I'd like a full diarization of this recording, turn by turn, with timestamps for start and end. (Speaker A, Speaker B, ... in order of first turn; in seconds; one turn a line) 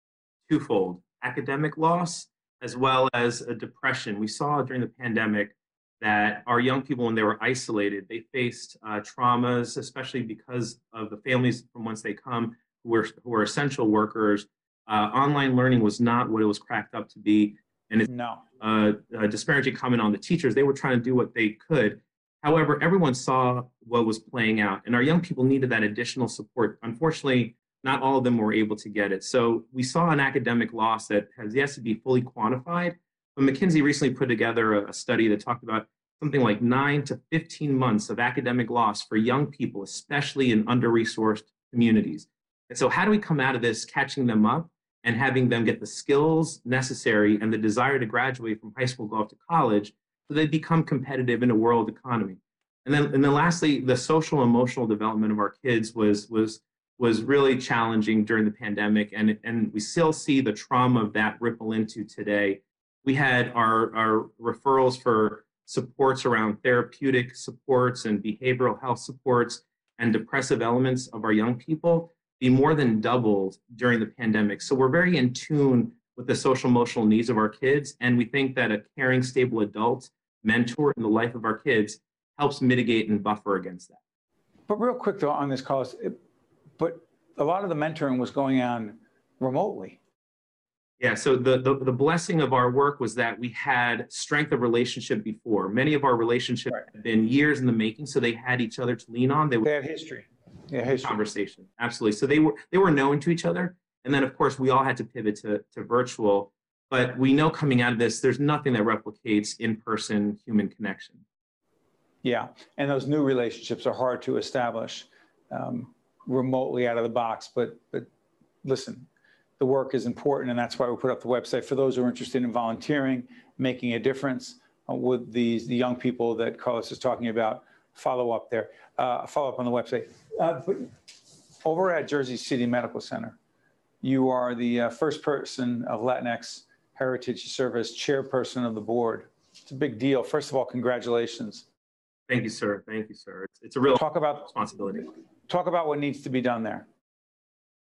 Speaker A: 0.5-18.1
Speaker B: 18.1-18.4
Speaker A: 18.6-84.0
Speaker B: 84.7-86.2
Speaker B: 86.8-90.0
Speaker A: 91.0-99.7
Speaker B: 99.6-101.2
Speaker A: 101.0-111.2
Speaker B: 112.2-118.1
Speaker B: 118.6-119.1
Speaker B: 119.6-130.9
Speaker B: 131.6-133.4
Speaker B: 134.0-141.7
Speaker A: 142.3-145.1
Speaker B: 143.9-144.5
Speaker B: 145.5-146.8